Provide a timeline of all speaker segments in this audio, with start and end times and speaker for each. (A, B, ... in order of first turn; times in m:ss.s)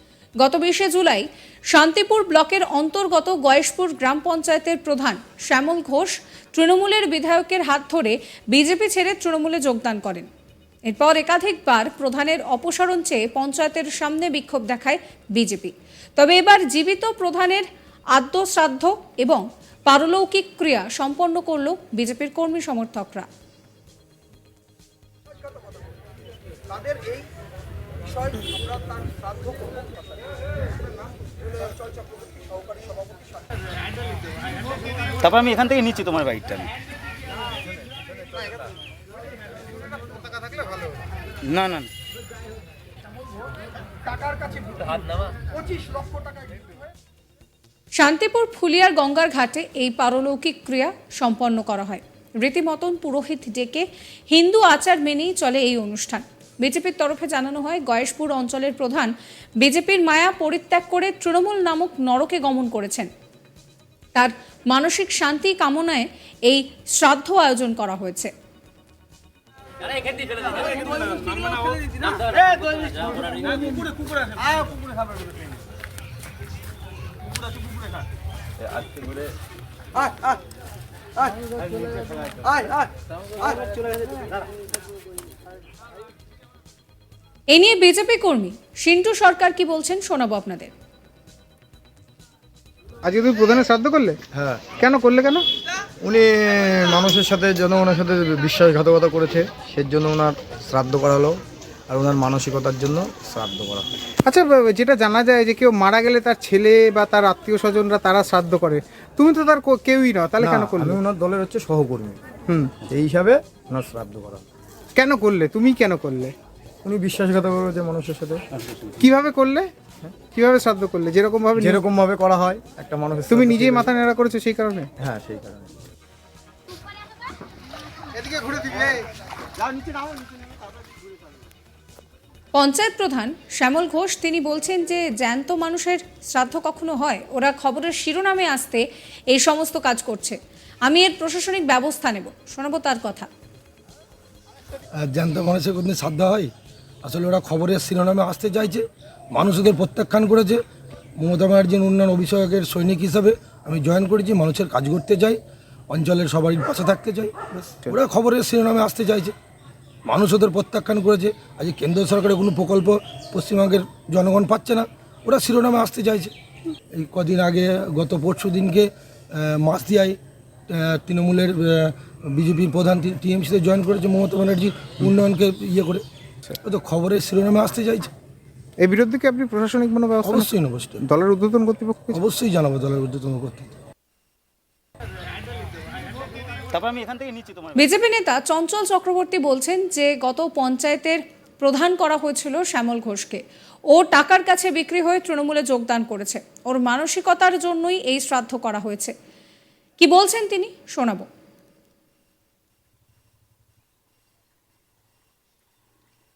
0:00.4-0:10.3 A
0:10.9-0:23.3 A
0:25.3-0:25.9 B
0:26.7-0:27.3 B
0:28.0-0:30.2 B
0:30.8-0:33.4 B
0:35.2-0:36.7 C
0:40.2-0:40.8 D
0:41.4-0:41.9 C
0:44.0-0:46.9 B
0:48.0-1:03.1 A
1:04.1-1:08.3 A
1:11.2-1:11.8 C
1:12.6-1:12.9 C
1:18.8-1:19.0 C
1:27.5-1:30.7 A
1:33.0-1:34.2 D
1:34.3-1:34.7 E
1:34.8-1:35.4 D
1:36.0-1:41.4 E
1:41.9-1:43.9 E
1:44.2-1:50.9 D
1:50.4-1:52.2 E
1:52.8-1:54.4 E
1:55.0-1:56.3 D
1:56.8-1:58.4 E
1:59.0-1:59.7 D
2:00.3-2:01.7 D
2:01.6-2:03.9 E
2:03.4-2:04.9 D
2:05.0-2:05.7 E
2:08.2-2:09.0 D
2:12.5-2:23.3 A
2:25.0-2:26.5 F
2:27.0-2:30.6 F
2:31.2-2:35.4 F
2:35.9-2:39.3 F
2:40.0-2:46.3 F
2:47.0-2:50.2 F
2:50.7-2:56.0 F
2:56.6-2:58.1 F
2:58.8-3:00.4 D
3:00.2-3:01.0 F
3:01.0-3:02.2 D
3:02.1-3:03.7 F
3:06.7-3:07.8 C
3:07.8-3:19.1 A
3:20.0-3:21.3 A